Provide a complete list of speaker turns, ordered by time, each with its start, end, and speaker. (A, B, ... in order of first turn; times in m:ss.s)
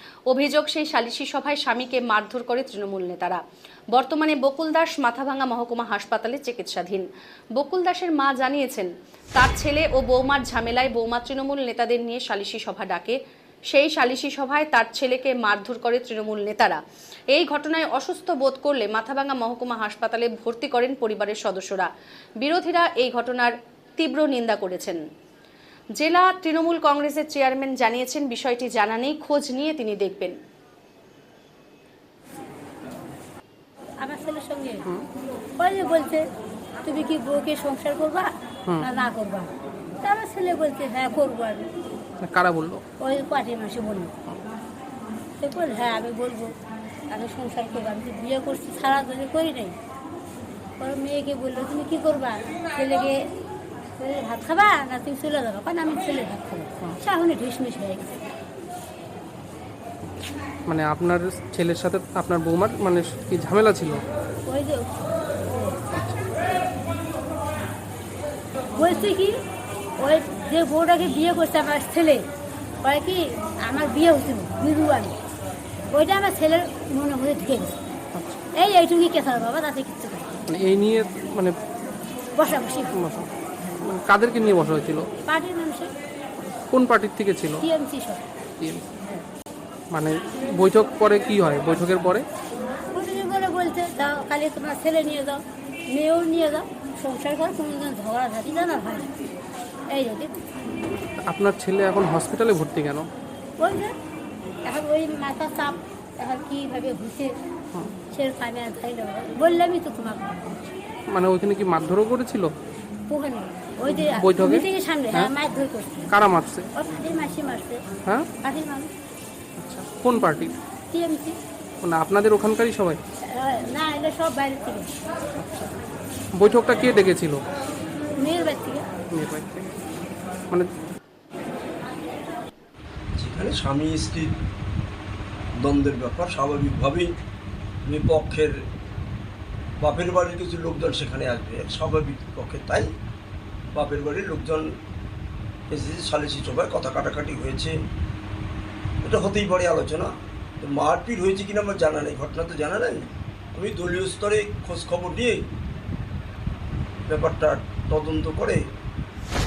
0:00.3-0:03.4 A
0:03.9-0:13.2 A
0:13.7-0:16.8 A
0:17.3-0:21.9 A
0:22.4-0:25.0 A
0:26.0-0:30.4 A
0:34.0-0:34.9 B
0:35.6-0:36.2 B
0:36.8-0:39.5 B
0:40.0-0:41.7 B
0:42.2-0:42.8 C
0:43.0-0:44.1 B
0:45.4-0:46.5 B
0:47.1-0:49.8 B
0:50.8-0:53.2 B
0:54.0-0:58.2 B
1:00.7-1:04.0 C
1:04.4-1:05.8 B
1:08.8-1:09.3 B
1:10.0-1:12.2 B
1:12.8-1:15.2 B
1:15.9-1:17.8 B
1:18.1-1:18.4 C
1:18.5-1:20.4 B
1:20.5-1:21.6 C
1:22.3-1:23.0 B
1:22.9-1:25.1 C
1:25.2-1:25.9 B
1:26.7-1:27.6 C
1:27.6-1:28.2 B
1:28.6-1:29.2 C
1:29.9-1:32.2 C
1:32.9-1:39.1 B
1:39.9-1:40.4 B
1:41.2-1:43.1 C
1:43.6-1:43.9 B
1:44.6-1:47.4 B
1:48.1-1:50.7 B
1:51.1-1:52.5 C
1:53.1-1:56.1 B
1:54.0-1:55.3 C
1:56.1-1:56.7 C
1:56.7-1:57.8 B
1:58.4-1:58.9 B
1:59.6-2:00.6 C
2:00.9-2:01.4 B
2:01.8-2:03.0 C
2:03.2-2:04.9 B
2:05.4-2:05.7 C
2:06.4-2:07.4 C
2:08.2-2:08.8 B
2:09.1-2:09.7 C
2:13.1-2:14.3 D
2:15.6-2:17.1 D
2:17.8-2:18.6 D
2:19.8-2:22.9 D
2:23.7-2:24.7 D
2:25.7-2:27.8 D
2:29.0-2:35.4 D
2:37.1-2:38.6 D